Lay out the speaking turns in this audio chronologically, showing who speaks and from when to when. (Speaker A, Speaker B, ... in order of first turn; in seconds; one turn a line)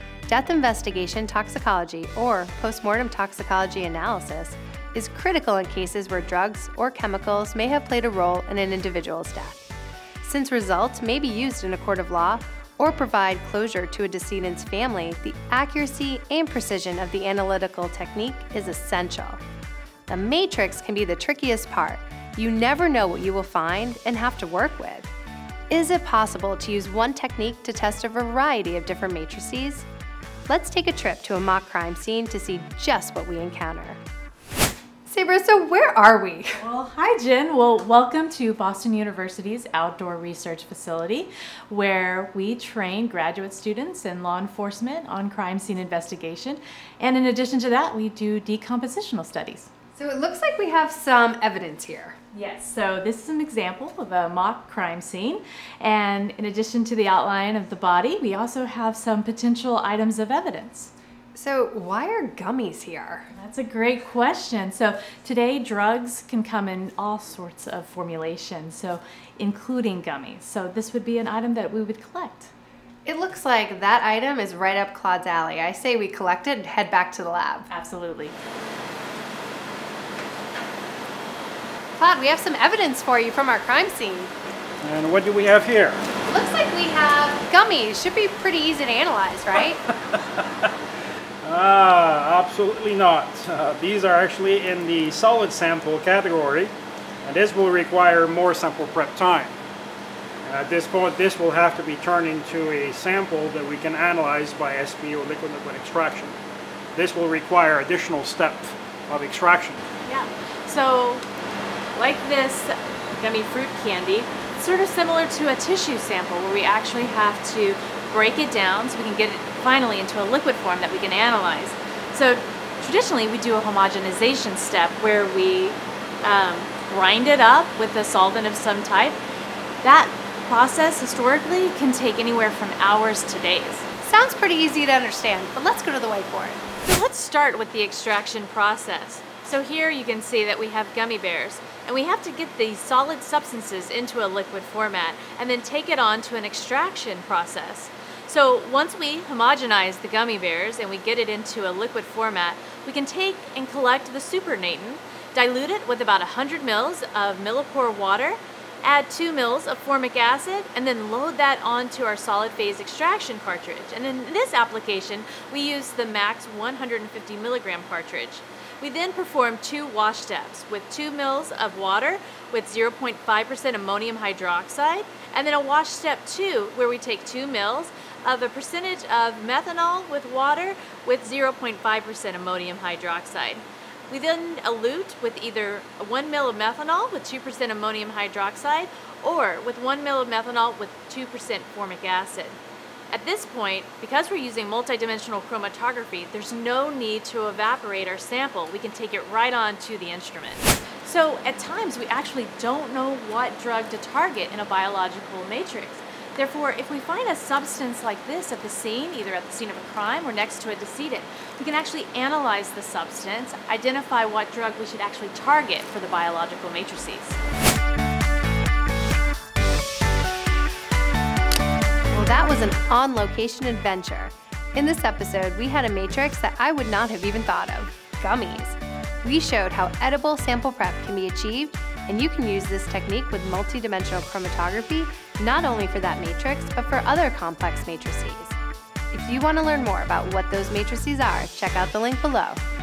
Speaker A: 0.3-9.6
Speaker A: 10.2-19.4
Speaker A: 20.1-25.1
Speaker A: 25.7-29.9
Speaker A: 30.5-34.0
Speaker A: 35.0-36.6
Speaker B: 36.5-49.7
Speaker A: 50.0-52.2
Speaker B: 52.3-60.9
Speaker A: 61.3-63.3
Speaker B: 63.3-72.5
Speaker A: 73.0-77.7
Speaker B: 77.7-78.3
Speaker A: 82.0-84.3
Speaker C: 84.8-86.0
Speaker A: 86.2-89.8
Speaker C: 90.1-90.7
Speaker C: 91.4-96.7
Speaker C: 97.2-99.5
Speaker C: 100.4-106.3
Speaker C: 107.0-109.8
Speaker B: 110.0-111.2
Speaker B: 112.0-129.2
Speaker B: 129.8-133.8
Speaker A: 134.0-136.6
Speaker B: 136.8-192.6
Speaker B: 193.1-217.4
Speaker A: 222.1-238.6
Speaker A: 239.1-242.6